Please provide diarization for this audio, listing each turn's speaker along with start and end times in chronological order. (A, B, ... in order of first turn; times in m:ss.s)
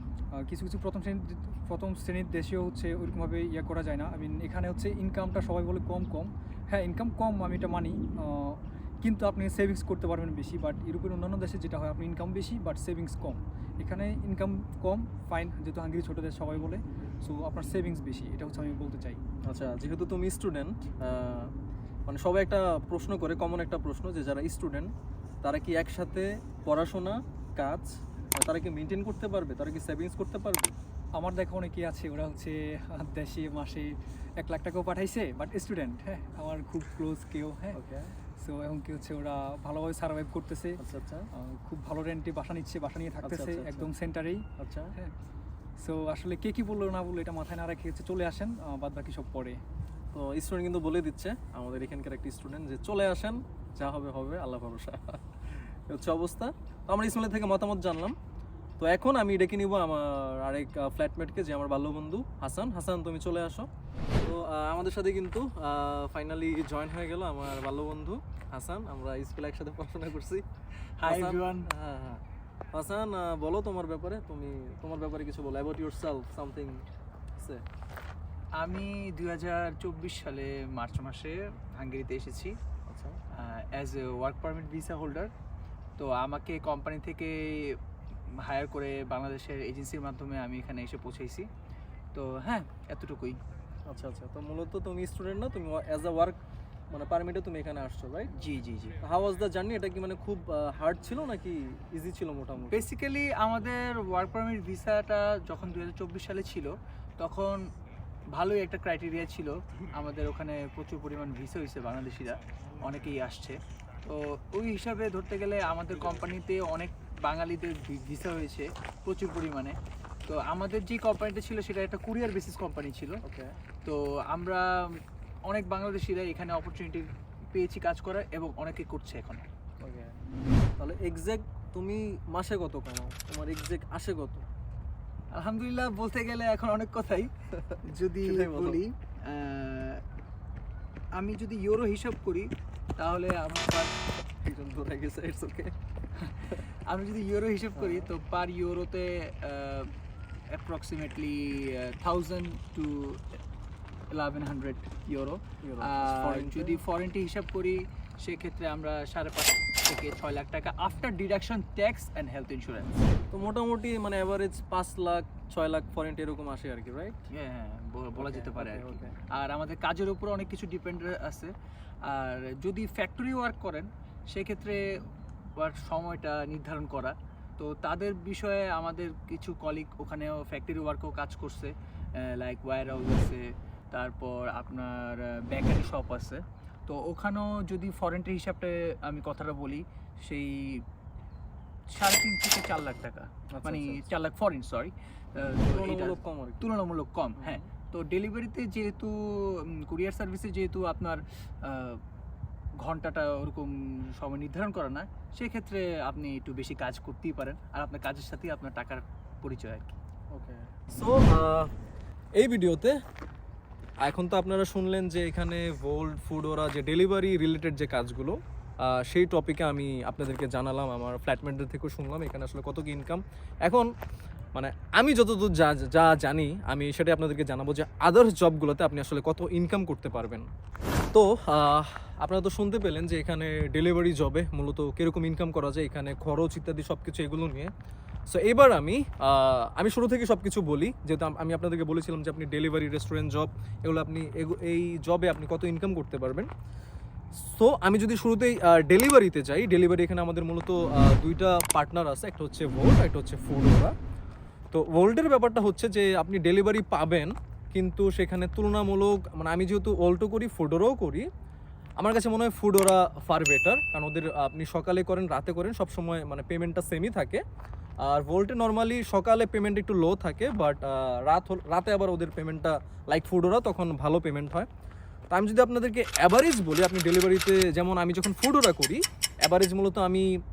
0:00.4-0:19.2 A
0:19.5-0:21.5 B
0:22.1-0:24.9 B
0:25.4-0:30.8 B
0:31.2-0:37.8 A
0:37.8-0:38.1 B
0:38.4-0:40.8 A
0:40.8-0:41.3 B
0:41.4-0:44.4 A
0:43.2-0:43.9 B
0:44.6-0:44.9 B
0:45.8-0:49.6 A
0:50.1-0:55.4 B
0:55.9-0:58.2 B
0:58.8-1:10.5 B
1:11.0-1:11.7 C
1:11.1-1:16.8 B
1:17.4-1:17.6 B
1:18.6-1:22.6 C
1:22.9-1:23.2 B
1:23.3-1:25.3 C
1:26.0-1:27.8 C
1:28.4-1:31.5 C
1:32.1-1:33.4 C
1:33.9-1:36.4 B
1:36.9-1:38.3 B
1:38.3-1:39.0 C
1:39.0-1:42.9 B
1:42.7-1:47.6 C
1:48.3-2:03.2 C
2:03.2-2:03.6 B
2:03.8-2:09.5 C
2:09.8-2:10.1 B
2:10.8-2:14.4 B
2:15.3-2:17.3 C
2:17.7-2:18.8 B
2:17.8-2:20.0 C
2:21.2-2:23.9 C
2:24.3-2:25.7 B
2:26.2-2:29.9 C
2:27.8-2:28.1 B
2:30.5-2:33.4 C
2:34.1-2:43.1 C
2:35.6-2:36.8 B
2:43.3-2:47.2 B
2:47.3-2:51.5 C
2:48.2-2:49.1 B
2:52.1-2:55.1 C
2:55.6-3:10.9 C
3:11.9-3:22.0 C
3:13.5-3:14.1 B
3:15.7-3:16.7 B
3:17.4-3:17.7 B
3:22.8-3:30.0 C
3:30.3-3:31.7 B
3:32.4-3:33.0 B
3:34.0-3:43.9 B
3:44.6-3:50.5 B
3:51.1-3:57.7 B
3:58.3-4:06.5 B
4:07.4-4:13.9 B
4:14.7-4:21.3 B
4:22.0-4:27.4 B
4:28.0-4:34.7 B
4:35.3-4:40.3 B